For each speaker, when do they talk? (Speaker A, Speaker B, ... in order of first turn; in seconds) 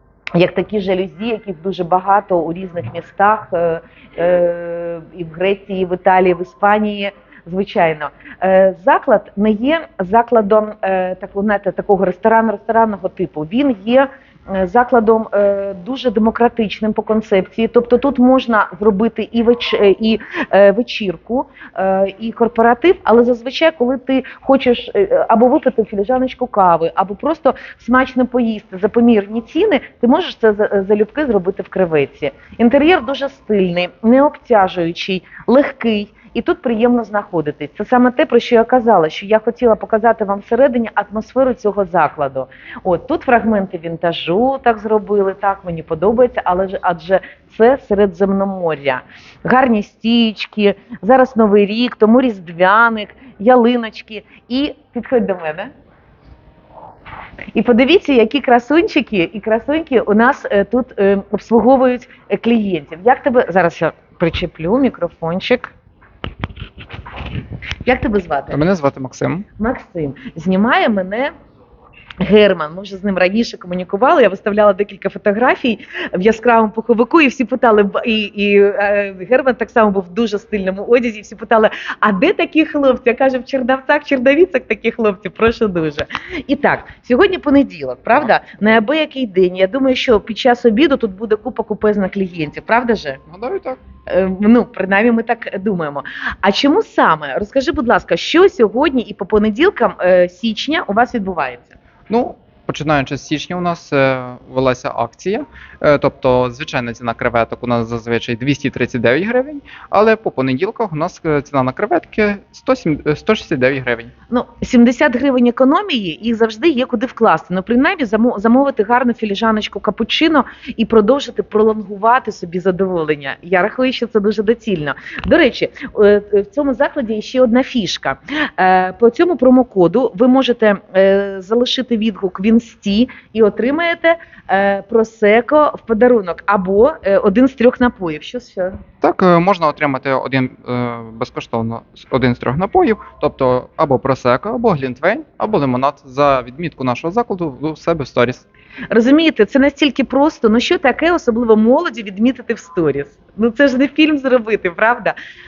Speaker A: 0.3-55.7, 57.5-65.7, 67.8-68.6, 69.6-71.3, 72.2-93.2, 94.1-101.8, 114.3-138.8, 148.9-155.1
Speaker B: 68.5-69.5, 93.3-93.8, 102.1-114.1, 139.0-148.4